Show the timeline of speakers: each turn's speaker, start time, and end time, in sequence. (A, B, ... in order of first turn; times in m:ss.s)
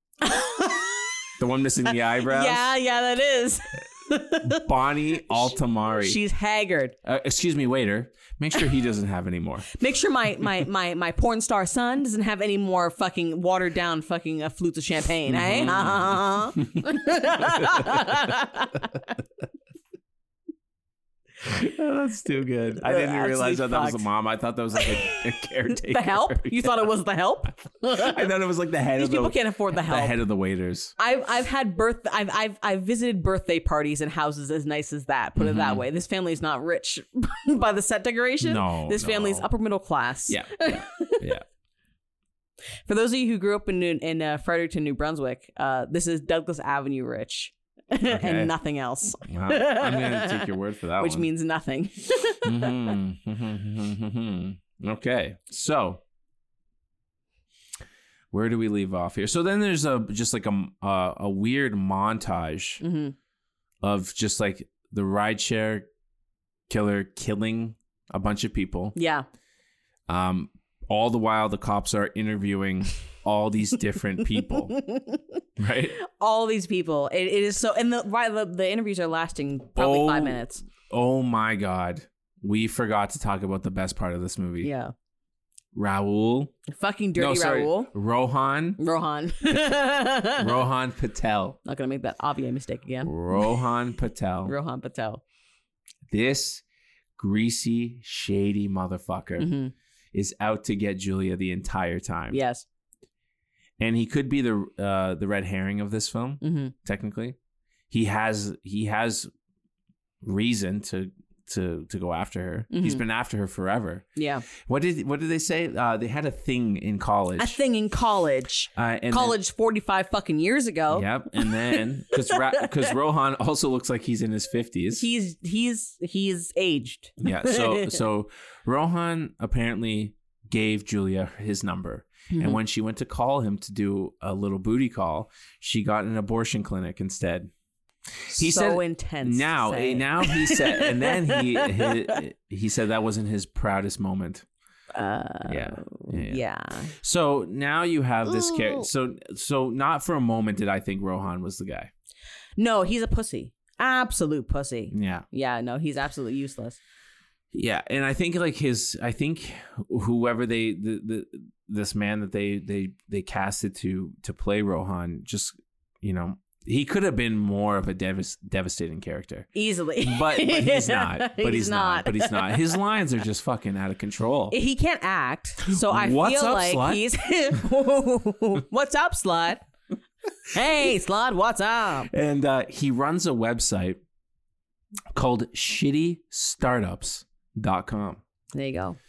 0:00.2-0:01.1 A
0:01.4-0:02.7 B
0:02.2-0:04.7 A
0:04.4-0:06.2 B
0:05.3-0:07.0 A
0:07.0-0:09.7 B
0:09.7-0:19.0 A
0:15.3-0:18.1 B
0:21.4-0:26.7 B
0:22.8-0:24.0 A
0:24.8-0:25.2 A
0:25.8-0:28.3 A
0:27.9-0:30.9 B
0:29.0-0:30.2 A
0:31.0-0:41.3 A
0:35.4-0:35.8 B
0:38.4-0:39.5 B
0:40.3-0:41.4 B
0:42.9-0:53.0 A
0:48.1-0:48.5 B
0:49.2-0:51.3 B
0:52.4-0:56.0 B
0:58.3-1:02.8 B
1:02.8-1:03.2 A
1:03.8-1:05.9 B
1:06.7-1:09.0 B
1:09.0-1:09.2 A
1:10.1-1:14.8 B
1:14.4-1:15.4 A
1:15.6-1:16.0 B
1:16.0-1:20.6 A
1:19.8-1:24.7 B
1:24.6-1:24.9 A
1:25.7-1:26.5 B
1:26.7-1:27.9 A
1:27.2-1:28.8 B
1:28.8-1:30.6 A
1:30.3-1:31.6 B
1:31.6-1:33.5 A
1:33.0-1:34.5 B
1:34.4-1:35.2 A
1:36.1-1:36.6 B
1:37.2-1:39.5 B
1:39.4-1:39.7 A
1:40.1-1:42.4 B
1:42.3-1:42.7 A
1:43.8-1:47.4 B
1:46.4-1:46.7 A
1:47.9-1:49.3 B
1:50.2-1:57.6 B
1:52.7-1:53.0 A
1:54.2-1:54.4 A
1:57.4-2:02.9 A
1:58.8-1:59.4 B
2:00.9-2:05.1 B
2:04.9-2:08.0 A
2:07.2-2:17.5 B
2:12.3-2:12.6 A
2:18.3-2:24.5 B
2:18.3-2:22.2 A
2:24.9-2:26.9 A
2:25.5-2:31.9 B
2:28.3-2:28.8 A
2:32.6-2:36.8 A
2:34.9-2:35.2 B
2:37.5-2:49.5 B
2:49.6-2:52.8 A
2:50.0-2:54.6 B
2:54.5-2:59.6 A
2:55.7-2:57.0 B
3:00.5-3:02.1 A
3:02.1-3:04.0 B
3:05.1-3:08.2 B
3:08.5-3:09.0 A